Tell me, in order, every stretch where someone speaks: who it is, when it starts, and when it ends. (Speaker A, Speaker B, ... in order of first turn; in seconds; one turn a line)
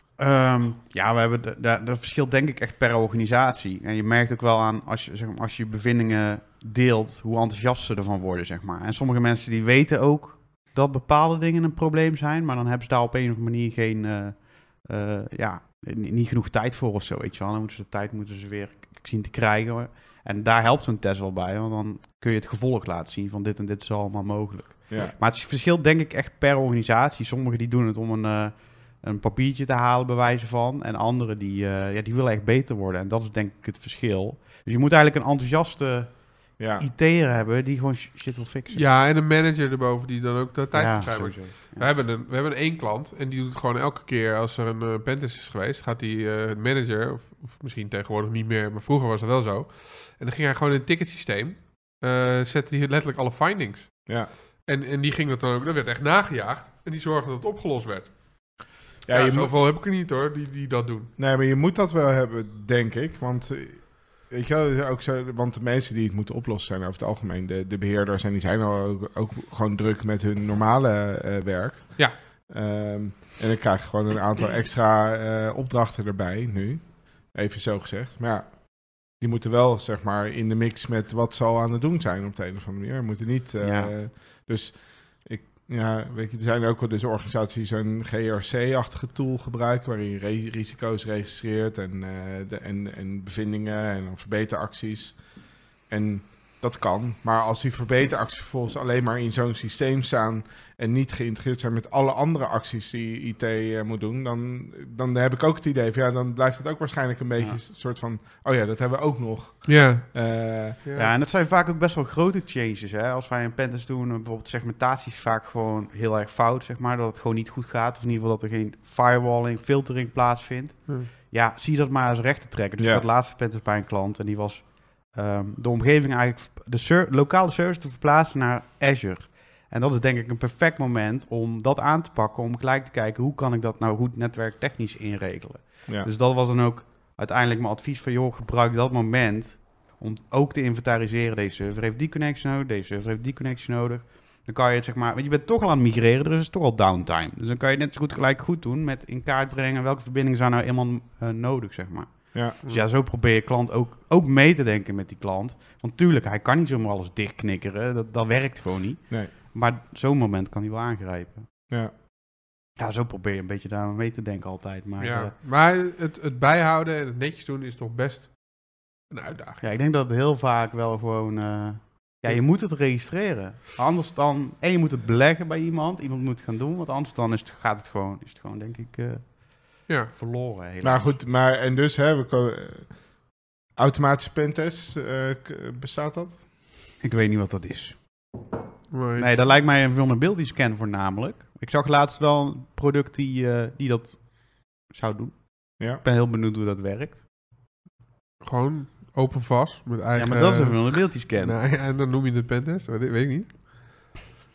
Speaker A: 0.2-38.8
Speaker B: 24.9-25.1
Speaker B: 36.6-36.9
Speaker C: 38.7-61.1
Speaker A: 40.7-41.9
Speaker B: 59.0-59.5
Speaker B: 61.2-110.8
Speaker A: 83.6-83.9
Speaker C: 109.6-111.1
Speaker A: 110.9-161.6
Speaker B: 122.8-123.0
Speaker B: 161.7-161.9
Speaker A: 162.7-165.3
Speaker C: 165.0-169.6
Speaker A: 169.6-181.1
Speaker C: 179.9-180.1
Speaker B: 180.8-186.5
Speaker A: 187.0-188.4
Speaker C: 188.9-189.4
Speaker A: 189.2-197.2
Speaker C: 198.4-204.2
Speaker A: 200.2-201.6